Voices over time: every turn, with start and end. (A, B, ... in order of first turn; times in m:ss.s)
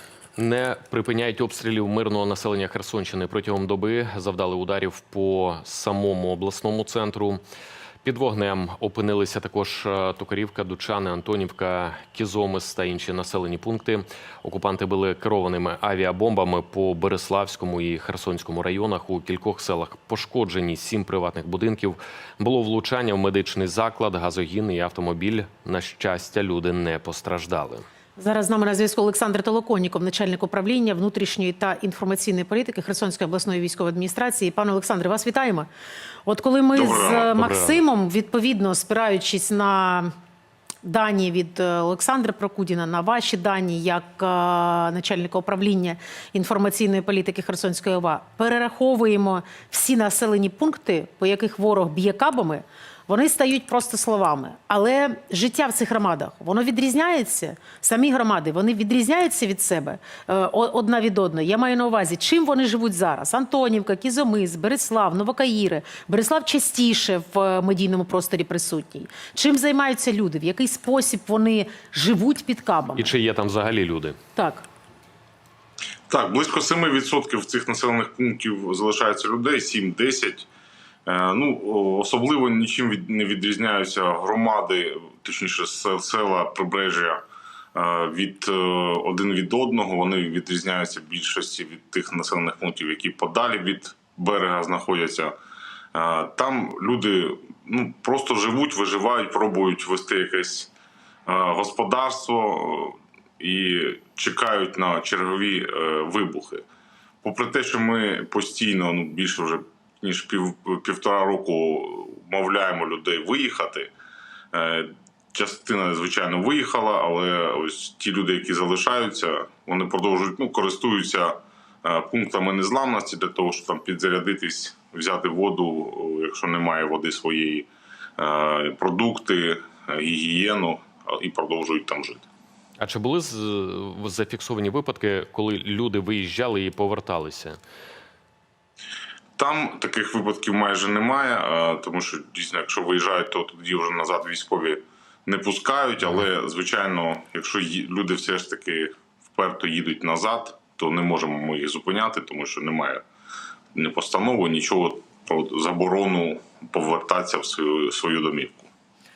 0:00.4-0:07.4 A
0:08.0-0:27.8 A
0:28.2-0:35.7 B
0:36.2-0:40.1 B
0:36.8-0:37.2 C
0:37.3-0:37.8 A
0:40.8-1:13.1 B
1:13.0-1:14.2 A
1:14.4-1:14.6 B
1:16.1-1:20.5 C
1:21.0-1:27.2 C
1:27.7-1:35.3 C
1:35.9-1:40.7 C
1:41.3-1:46.6 C
1:47.2-1:53.9 C
1:54.5-2:12.2 C
2:12.8-2:17.6 A
2:19.4-2:33.0 C
2:33.7-2:38.7 C